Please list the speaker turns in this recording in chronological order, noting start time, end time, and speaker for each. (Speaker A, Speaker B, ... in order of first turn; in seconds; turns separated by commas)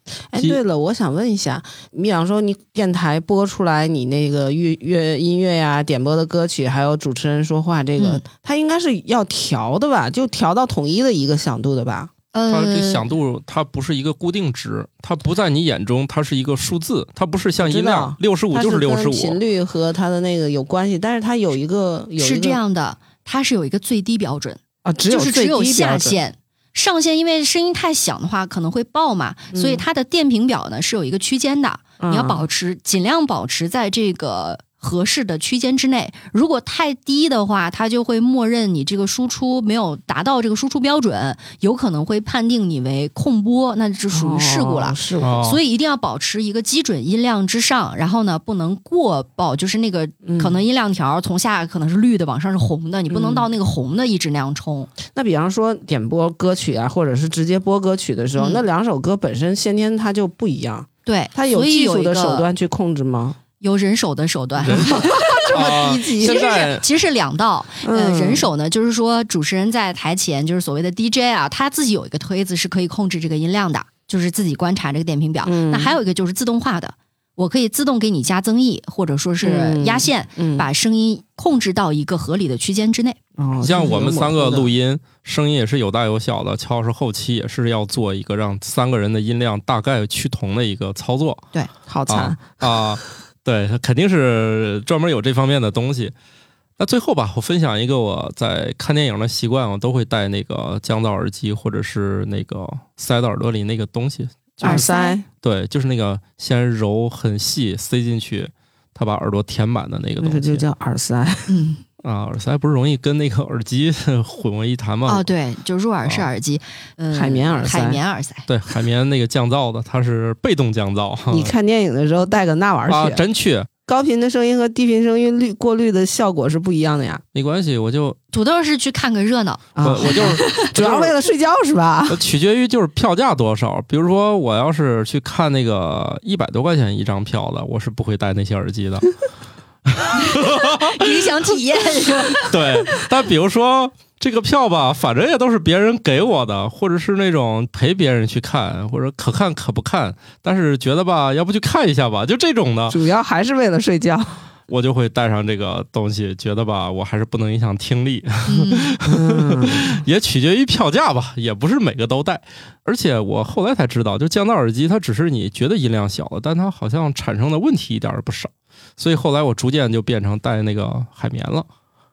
Speaker A: 0.3-12.1, Speaker B: 8.0-8.2, Speaker B: 12.3-13.1, Speaker C: 12.5-19.4, Speaker A: 17.6-22.6, Speaker B: 22.2-54.9, Speaker A: 24.8-26.2, Speaker A: 29.5-29.8, Speaker A: 32.0-32.4, Speaker A: 44.1-45.4, Speaker C: 45.2-45.6, Speaker A: 50.2-50.5, Speaker A: 53.1-53.5, Speaker A: 55.1-63.4, Speaker B: 58.4-58.6, Speaker B: 61.0-62.5, Speaker B: 63.6-83.2, Speaker A: 64.6-66.5, Speaker C: 64.6-66.8, Speaker A: 67.8-68.5, Speaker A: 75.4-75.9, Speaker A: 79.4-80.7, Speaker A: 83.4-84.7, Speaker C: 83.6-91.4, Speaker A: 91.9-92.4, Speaker C: 92.1-96.1, Speaker C: 96.8-104.9, Speaker A: 104.6-105.2, Speaker B: 104.6-105.2, Speaker C: 105.4-110.6, Speaker A: 110.2-111.6, Speaker B: 111.5-111.8, Speaker C: 112.0-115.2, Speaker B: 115.0-118.5, Speaker A: 117.1-118.0, Speaker C: 118.5-121.5, Speaker A: 121.3-123.2, Speaker C: 122.9-123.7, Speaker A: 123.9-127.2, Speaker C: 127.3-128.2, Speaker B: 128.3-130.5, Speaker A: 129.8-132.2, Speaker C: 129.8-131.1, Speaker C: 132.1-139.1, Speaker C: 139.9-141.1, Speaker B: 140.3-142.5, Speaker C: 142.4-153.0, Speaker A: 152.9-154.4, Speaker C: 154.7-171.7, Speaker B: 158.5-158.9, Speaker A: 159.1-159.9